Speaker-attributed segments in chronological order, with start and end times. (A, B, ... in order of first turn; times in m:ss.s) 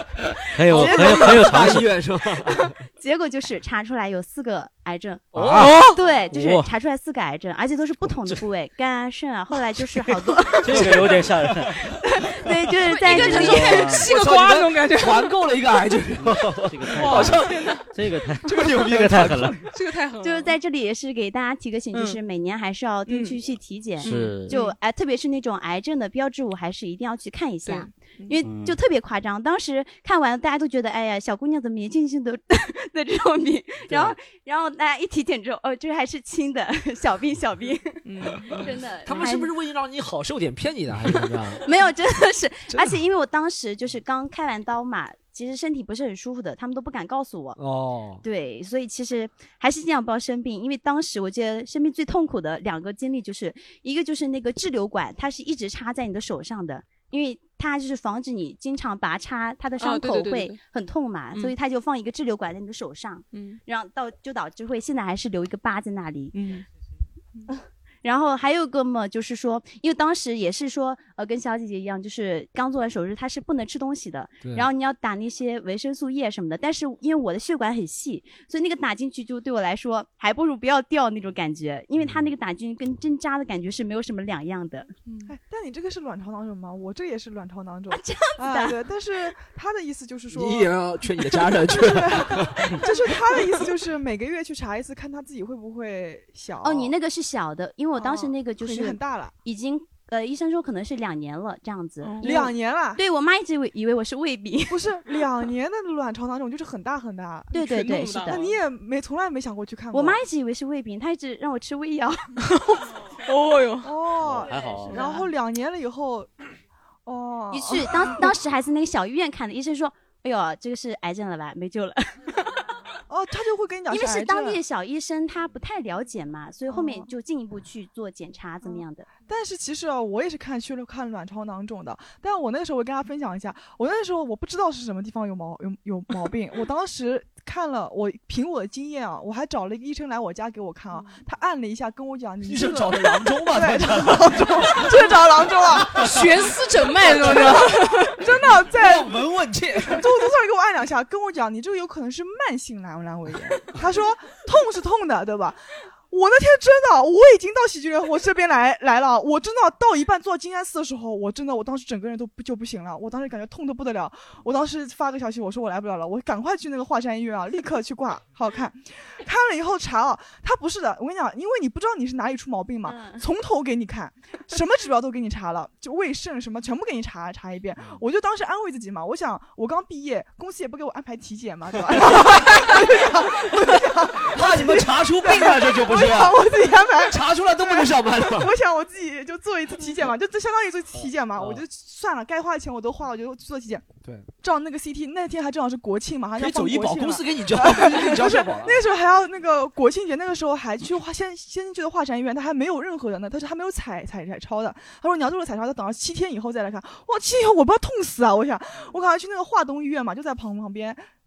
0:00.5-0:01.9 A
0:00.7-0:02.6 B
0:00.8-0:01.1 C
0:02.9-0:11.0 C
0:05.3-0:05.8 B
0:05.3-0:06.7 A
0:05.5-0:06.0 D
0:08.1-0:08.4 A
0:09.9-0:11.8 A
0:10.7-0:11.9 B
0:12.1-0:13.8 C
0:12.8-0:15.4 D
0:13.0-0:14.1 A
0:13.7-0:17.6 B
0:16.2-0:19.6 A
0:16.9-0:17.9 D
0:18.4-0:19.6 B
0:19.7-0:20.6 D
0:20.2-0:39.5 C
0:21.9-0:22.2 D
0:23.1-0:23.4 D
0:24.0-0:24.8 D
0:24.0-0:24.6 A
0:27.6-0:28.4 D
0:28.4-0:28.8 A
0:33.8-0:34.2 B
0:38.0-0:38.8 D
0:39.0-0:41.6 B
0:41.6-0:47.6 C
0:47.6-0:48.2 B
0:48.2-1:06.4 C
0:59.8-1:00.6 D
1:03.3-1:03.6 D
1:06.3-1:06.6 D
1:08.0-1:24.9 C
1:14.4-1:14.7 B
1:22.0-1:22.2 B
1:25.0-1:25.3 D
1:25.3-1:30.8 E
1:27.9-1:28.8 C
1:30.3-1:32.7 B
1:31.4-1:36.9 E
1:36.6-1:44.9 C
1:38.0-1:39.4 E
1:42.0-1:42.5 D
1:42.2-1:43.0 E
1:44.7-1:47.6 E
1:47.5-1:48.4 C
1:47.6-1:48.5 D
1:48.2-1:50.2 E
1:49.9-1:52.2 C
1:52.4-1:53.9 D
1:53.8-1:56.3 E
1:54.2-1:55.0 A
1:57.0-1:58.3 E
1:57.5-2:02.2 C
2:03.1-2:04.6 E
2:03.9-2:09.1 C
2:06.7-2:07.0 E
2:08.6-2:26.0 E
2:22.4-2:24.9 B
2:25.9-2:26.4 B
2:25.9-2:28.2 D
2:27.1-2:27.4 B
2:27.2-2:29.2 E
2:28.7-2:30.0 B
2:29.8-2:35.6 E
2:36.1-3:13.8 E
2:52.8-2:53.2 C
3:04.2-3:06.4 B
3:07.0-3:08.5 B
3:10.9-3:11.6 B
3:14.0-3:14.3 B
3:14.4-3:31.0 E
3:16.4-3:18.8 B